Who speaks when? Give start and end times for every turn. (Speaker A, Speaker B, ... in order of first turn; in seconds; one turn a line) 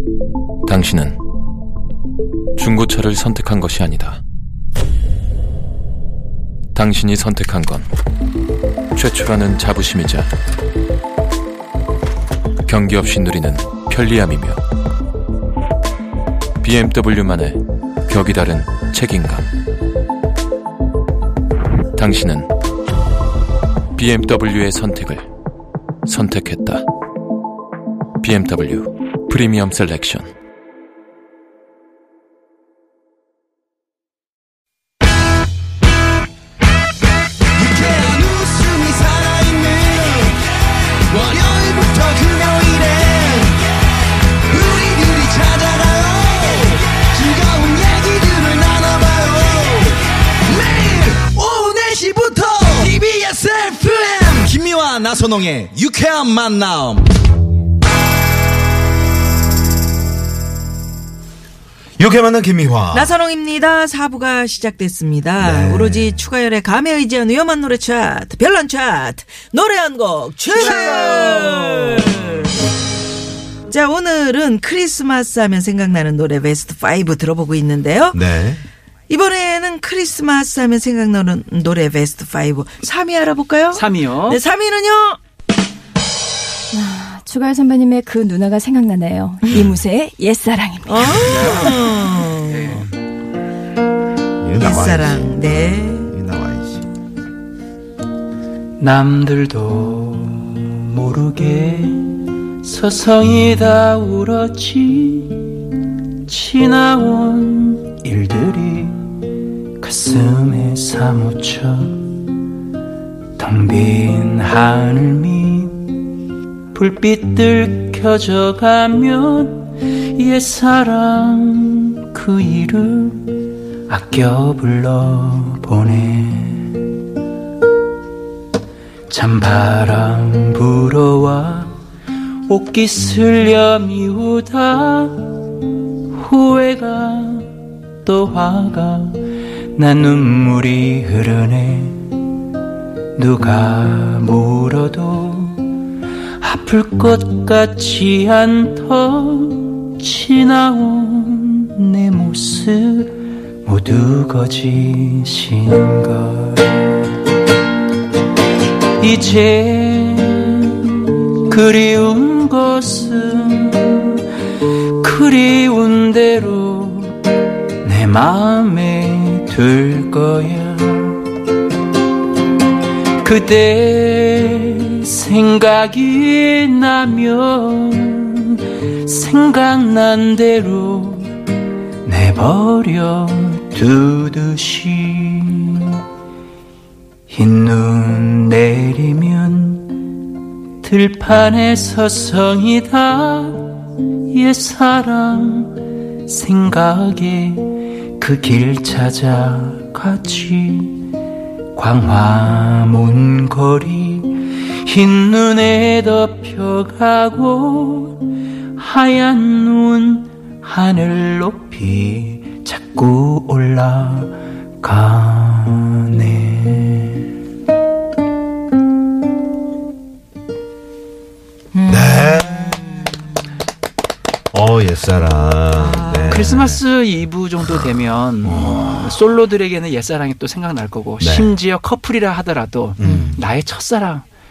Speaker A: 0.7-1.2
Speaker A: 2.6-4.2
Speaker A: 6.8-7.9
Speaker A: 8.9-10.3
Speaker A: 12.7-14.6
Speaker A: 16.6-19.5
Speaker A: 21.9-22.5
Speaker A: 24.0-25.3
Speaker A: 26.1-26.9
Speaker A: 28.2-30.3
Speaker B: 37.6-40.4
Speaker B: 41.0-43.6
Speaker B: 44.5-57.1
Speaker C: 62.0-63.1
Speaker D: 62.9-72.6
Speaker C: 65.4-66.2
Speaker C: 70.5-72.4
Speaker D: 73.7-78.2
Speaker C: 78.1-78.6
Speaker D: 79.1-85.2
Speaker E: 83.7-84.4
Speaker F: 86.8-90.8
Speaker C: 89.5-89.8
Speaker D: 90.8-92.8
Speaker E: 91.2-92.9
Speaker C: 94.4-96.9
Speaker D: 94.6-96.1
Speaker E: 98.8-109.2
Speaker E: 109.8-112.3
Speaker E: 113.4-116.0
Speaker E: 116.7-126.8
Speaker E: 129.1-131.8
Speaker E: 132.4-142.2
Speaker E: 143.2-145.8
Speaker E: 146.4-157.0
Speaker E: 159.0-164.3
Speaker E: 164.8-167.2
Speaker E: 167.8-171.3
Speaker E: 173.2-181.4
Speaker E: 182.0-186.0
Speaker E: 187.3-190.2
Speaker E: 190.8-201.1
Speaker E: 201.8-217.3
Speaker D: 221.7-223.4
Speaker C: 221.9-222.9
Speaker C: 224.5-226.8
Speaker D: 225.7-226.6
Speaker E: 226.3-234.3
Speaker C: 228.4-229.2
Speaker C: 231.2-231.5
Speaker C: 233.0-233.4
Speaker D: 233.0-233.4